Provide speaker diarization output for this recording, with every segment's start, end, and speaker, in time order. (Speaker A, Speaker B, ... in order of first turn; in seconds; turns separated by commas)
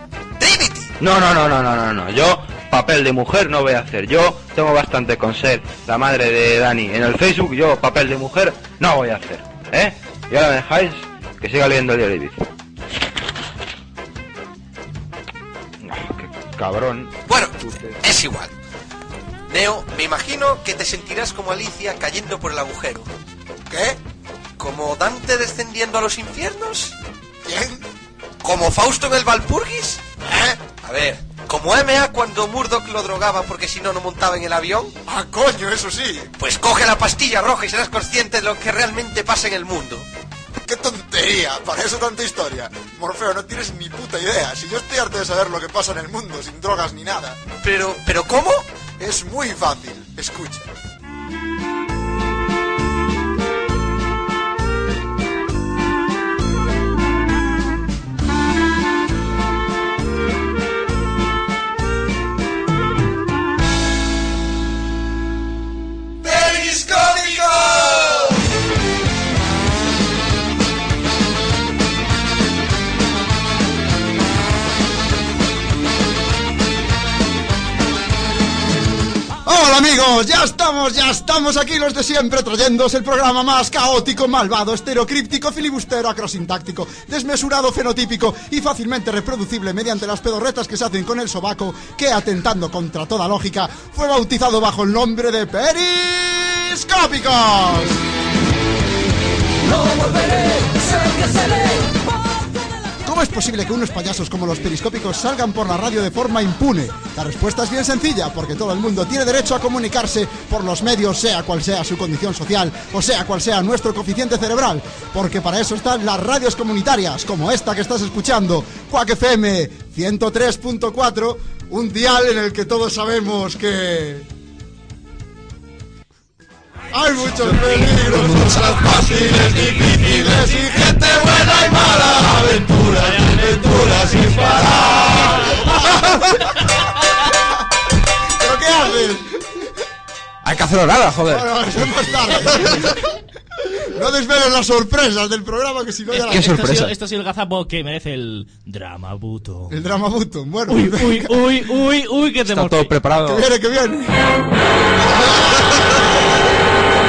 Speaker A: 0.4-0.9, Speaker B: 1.0-12.4, Speaker B: 15.8-18.0, Speaker A: 17.2-18.5, Speaker A: 19.5-23.1, Speaker A: 24.6-26.9, Speaker C: 27.5-27.8, Speaker A: 28.4-35.0, Speaker C: 35.0-36.3, Speaker A: 36.4-40.1, Speaker C: 40.6-47.4, Speaker A: 47.6-48.7, Speaker C: 49.0-50.7, Speaker A: 67.2-67.9, Speaker C: 79.4-98.0, Speaker C: 103.0-124.3, Speaker C: 126.9-136.5, Speaker D: 127.4-128.0, Speaker D: 129.3-131.0, Speaker D: 132.9-136.3, Speaker C: 138.3-139.7, Speaker E: 140.4-141.5, Speaker C: 141.3-146.6, Speaker D: 146.1-149.9, Speaker E: 146.2-146.9, Speaker C: 149.7-151.6, Speaker D: 150.7-153.0, Speaker E: 152.5-153.4, Speaker C: 153.2-154.3, Speaker C: 155.0-156.2